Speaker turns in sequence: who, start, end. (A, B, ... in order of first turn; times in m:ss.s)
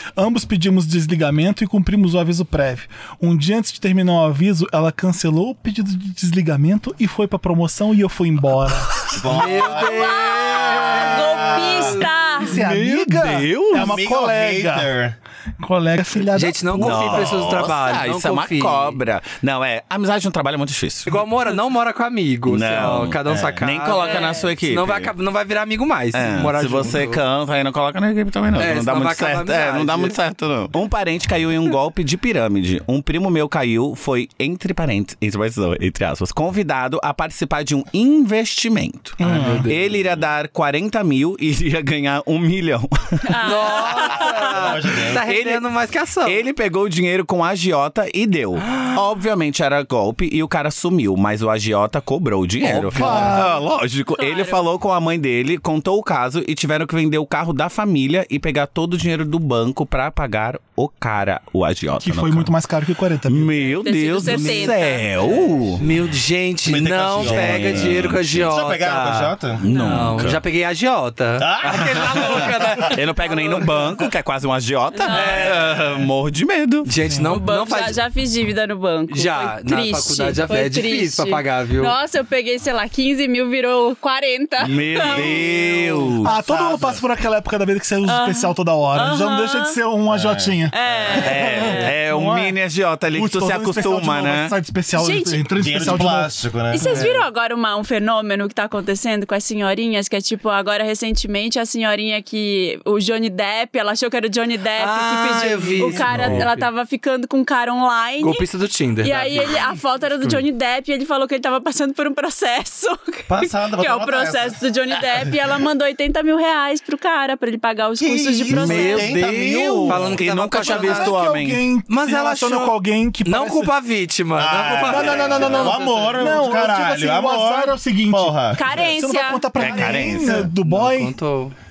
0:00.2-0:09.1 A
0:09.1-0:12.0 B
0:09.2-0:12.0 C
0:09.5-0:12.5 D
0:12.4-0:14.9 A
0:12.5-0:14.0 E
0:13.7-0:15.2 B
0:15.6-0:17.4 A
0:16.3-0:19.0 C
0:16.8-0:21.2 E
0:21.1-0:27.2 C
0:22.5-0:25.1 E
0:23.3-0:23.6 B
0:24.0-0:24.5 D
0:26.1-0:43.4 E
0:28.6-0:30.2 C
0:39.2-0:39.7 A
0:39.2-0:39.8 C
0:43.3-0:44.5 D
0:43.4-0:46.4 C
0:44.0-0:45.2 B
0:45.1-0:45.6 E
0:46.2-1:02.5 E
0:48.7-0:48.9 C
0:52.8-0:53.3 C
0:52.8-0:53.5 A
0:54.2-0:54.6 D
1:02.0-1:03.5 A
1:03.2-1:05.8 E
1:03.7-1:05.3 D
1:05.8-1:13.6 C
1:06.6-1:09.6 B
1:07.2-1:08.5 E
1:09.6-1:10.4 E
1:09.7-1:10.1 D
1:11.4-1:12.9 B
1:12.3-1:16.9 E
1:15.0-1:15.5 D
1:15.1-1:15.6 C
1:15.1-1:15.9 B
1:16.8-1:18.0 C
1:17.3-1:26.1 D
1:19.1-1:21.9 C
1:24.6-1:26.3 E
1:24.8-1:27.0 B
1:26.2-1:30.7 A
1:28.0-1:29.8 D
1:30.1-1:31.6 B
1:30.7-1:31.9 D
1:31.2-1:34.5 E
1:31.8-1:32.6 A
1:33.1-1:36.3 A
1:34.9-1:35.6 D
1:35.6-1:37.0 B
1:36.7-1:48.4 D
1:36.8-1:37.2 C
1:44.8-1:46.7 C
1:46.0-1:46.4 B
1:48.2-1:49.7 C
1:49.0-1:59.2 D
1:53.3-1:55.2 B
1:58.0-2:00.2 B
1:58.5-2:01.6 E
1:59.8-2:01.1 C
2:00.6-2:03.7 A
2:01.9-2:06.3 C
2:04.4-2:08.8 B
2:04.8-2:11.1 A
2:08.5-2:09.6 D
2:09.6-2:10.5 E
2:10.6-2:11.5 C